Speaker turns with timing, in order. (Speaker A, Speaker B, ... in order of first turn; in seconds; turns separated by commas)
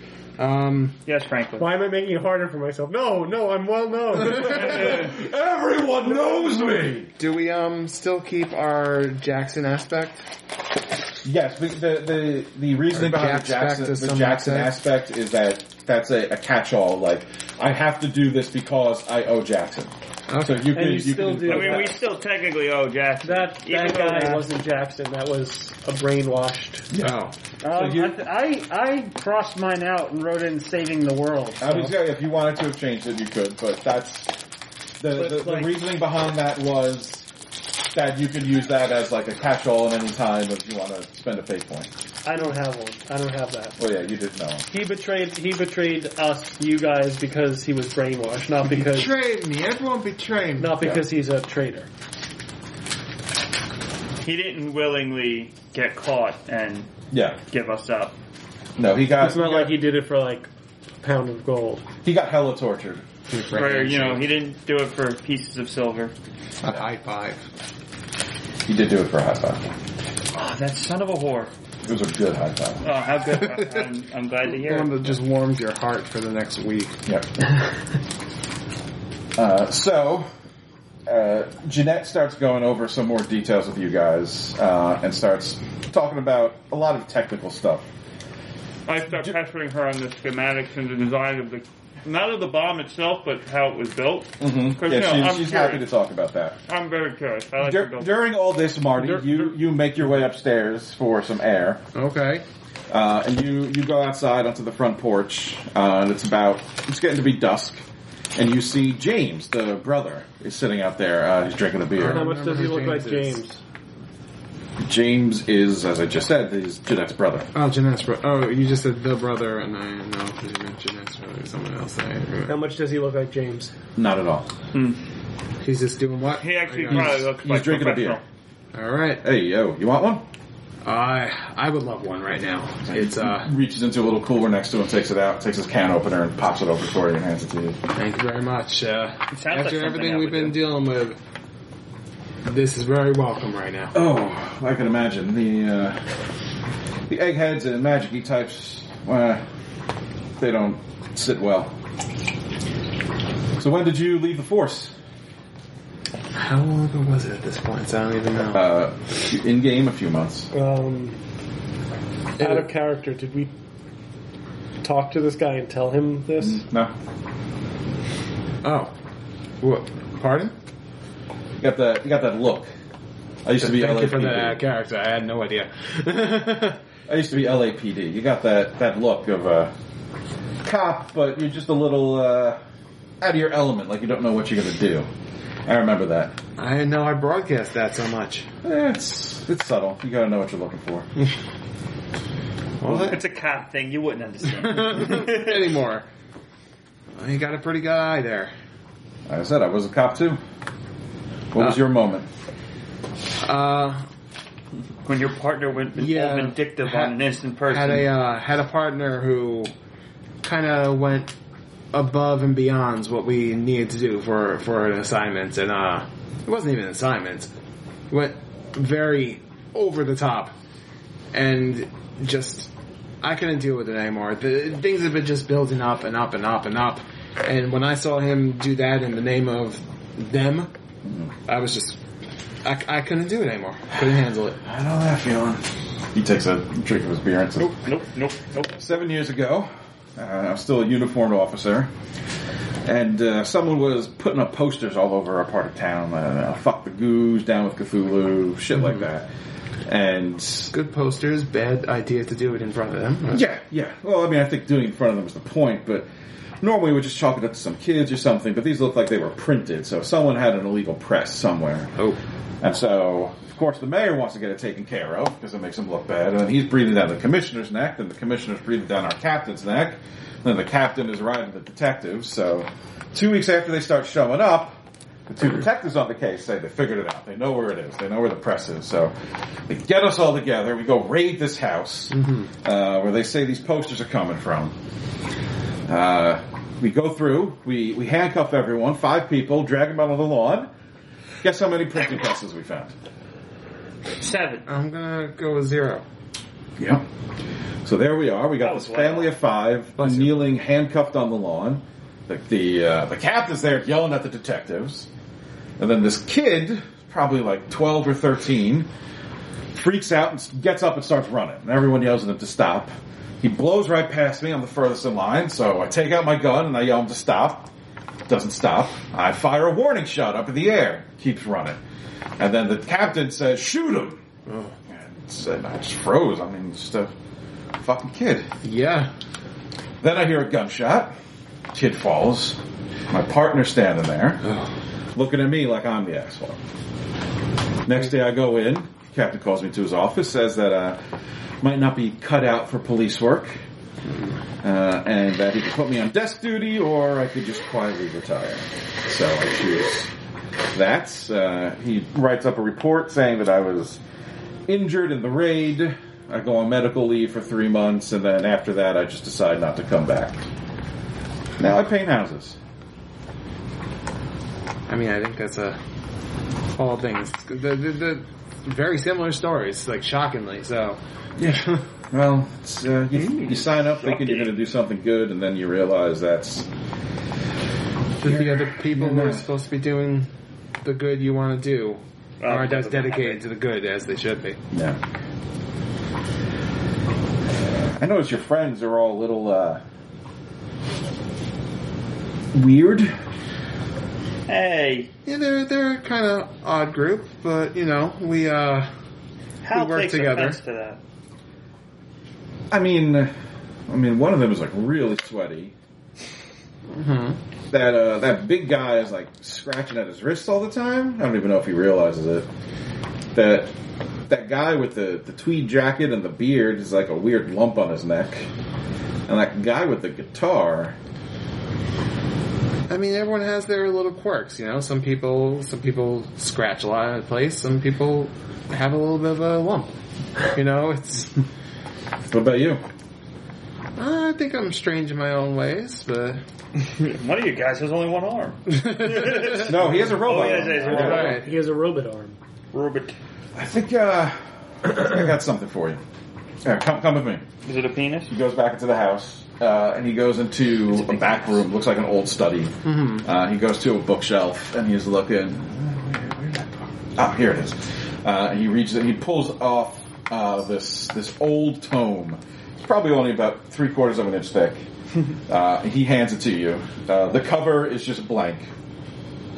Speaker A: 0.4-1.0, Speaker B: 1.1-1.7, Speaker C: 1.6-5.1, Speaker D: 4.4-7.1, Speaker A: 7.2-10.3, Speaker D: 11.2-21.9, Speaker A: 12.9-14.7, Speaker A: 20.3-20.8, Speaker C: 20.7-21.9, Speaker B: 21.5-24.4, Speaker C: 23.2-26.9, Speaker D: 26.9-27.2, Speaker A: 27.0-27.3, Speaker E: 27.6-31.9, Speaker D: 27.7-28.2, Speaker D: 31.6-34.3, Speaker D: 35.0-37.3, Speaker C: 35.1-35.8, Speaker D: 37.9-41.9, Speaker C: 42.2-43.8, Speaker D: 43.8-44.6, Speaker C: 44.7-49.1, Speaker A: 48.6-50.8, Speaker C: 50.6-51.9, Speaker B: 54.2-56.9, Speaker D: 57.1-57.4, Speaker B: 57.5-58.1, Speaker D: 58.8-59.8, Speaker C: 59.2-60.5, Speaker C: 61.0-61.8, Speaker D: 62.0-63.0, Speaker A: 63.3-64.3, Speaker B: 63.5-66.1, Speaker A: 66.6-67.4, Speaker D: 68.7-69.7, Speaker B: 70.3-71.5, Speaker D: 71.8-72.9, Speaker B: 72.8-75.2, Speaker A: 73.3-73.9, Speaker A: 74.5-77.0, Speaker D: 79.3-80.3, Speaker D: 81.0-87.9, Speaker B: 88.9-95.8, Speaker D: 94.4-96.6, Speaker B: 96.7-98.1, Speaker D: 97.6-101.8, Speaker A: 99.1-99.3, Speaker A: 101.9-102.4, Speaker D: 102.9-107.8, Speaker D: 108.3-112.3, Speaker A: 112.0-113.4, Speaker C: 112.0-113.6, Speaker D: 114.8-117.5, Speaker A: 117.5-122.6, Speaker C: 122.5-123.7, Speaker D: 124.0-124.5, Speaker B: 124.7-125.0, Speaker A: 125.6-127.2, Speaker B: 126.4-128.2, Speaker D: 126.9-128.2, Speaker A: 128.7-129.2, Speaker D: 129.2-130.2, Speaker A: 130.8-133.5, Speaker D: 132.9-137.8, Speaker A: 137.9-141.2, Speaker B: 139.3-140.6, Speaker A: 142.4-143.9, Speaker D: 143.9-146.0, Speaker D: 147.1-149.4, Speaker D: 150.4-151.7, Speaker D: 153.6-154.9, Speaker A: 156.3-158.6, Speaker D: 158.5-160.5, Speaker C: 160.5-161.2, Speaker A: 162.4-162.7, Speaker C: 162.4-163.5, Speaker C: 164.8-166.6, Speaker D: 166.4-166.9, Speaker A: 168.6-168.9, Speaker A: 169.6-170.5, Speaker D: 171.6-172.7, Speaker D: 173.4-174.6, Speaker A: 173.6-176.8, Speaker D: 177.1-179.7, Speaker D: 180.6-182.6, Speaker D: 183.2-185.1, Speaker D: 185.7-186.4, Speaker A: 186.6-188.5, Speaker D: 188.6-191.1, Speaker A: 192.8-193.2, Speaker D: 192.8-193.1, Speaker B: 192.9-195.7, Speaker A: 194.5-196.1, Speaker A: 197.2-198.5, Speaker D: 199.3-200.4, Speaker D: 201.5-202.3, Speaker A: 203.4-204.1, Speaker B: 205.0-208.1, Speaker A: 205.9-209.7, Speaker A: 210.4-211.3, Speaker A: 211.9-217.5, Speaker A: 218.1-220.5, Speaker A: 221.3-230.7, Speaker A: 231.5-232.0, Speaker A: 232.6-234.6, Speaker D: 234.6-237.8, Speaker B: 237.6-238.9, Speaker D: 238.8-241.9, Speaker D: 242.8-249.3, Speaker A: 248.8-249.0, Speaker D: 249.8-250.7, Speaker A: 250.7-253.4, Speaker D: 253.3-256.1, Speaker D: 256.6-261.9, Speaker D: 262.6-279.1, Speaker D: 279.7-284.7, Speaker A: 282.2-282.4, Speaker D: 285.9-290.7, Speaker D: 291.4-292.9, Speaker B: 294.2-294.6, Speaker A: 294.6-296.0, Speaker D: 296.8-297.1, Speaker D: 297.8-305.1, Speaker B: 298.6-299.3, Speaker A: 300.0-300.3, Speaker D: 305.8-308.9, Speaker D: 309.7-317.7, Speaker D: 318.3-321.8, Speaker D: 322.4-324.2, Speaker A: 324.5-324.7, Speaker D: 324.9-327.1, Speaker D: 327.8-328.5, Speaker A: 328.6-329.1, Speaker D: 330.0-331.1, Speaker D: 331.7-332.6, Speaker D: 333.1-334.4, Speaker A: 334.4-334.7, Speaker D: 335.1-336.6, Speaker D: 337.9-341.0, Speaker D: 341.6-343.6, Speaker D: 344.6-350.1, Speaker D: 350.7-354.0, Speaker D: 354.7-360.4, Speaker D: 361.6-362.6, Speaker A: 364.9-365.8, Speaker A: 366.7-371.0, Speaker D: 371.4-376.7, Speaker B: 373.2-374.5, Speaker D: 378.2-379.5, Speaker A: 378.2-380.3, Speaker A: 380.8-384.6, Speaker B: 382.4-383.4, Speaker D: 384.7-385.0, Speaker D: 388.0-389.8, Speaker D: 392.5-393.1, Speaker B: 394.5-395.1, Speaker A: 395.2-398.9, Speaker B: 399.6-401.0, Speaker A: 399.7-400.6, Speaker D: 402.7-403.3, Speaker D: 403.9-405.7, Speaker A: 406.9-407.4, Speaker D: 407.7-412.5, Speaker D: 413.3-413.7, Speaker D: 414.3-418.5, Speaker D: 419.3-420.9, Speaker A: 422.9-429.9, Speaker A: 430.5-431.4, Speaker D: 432.3-432.8, Speaker A: 434.0-436.4, Speaker B: 436.8-441.4, Speaker A: 438.7-439.7, Speaker D: 439.5-441.4, Speaker C: 440.8-442.4, Speaker A: 440.9-441.5, Speaker B: 442.7-443.1, Speaker D: 443.5-446.0, Speaker D: 446.6-447.4, Speaker B: 447.6-448.3, Speaker D: 448.3-464.8, Speaker A: 452.8-453.3, Speaker D: 465.5-468.7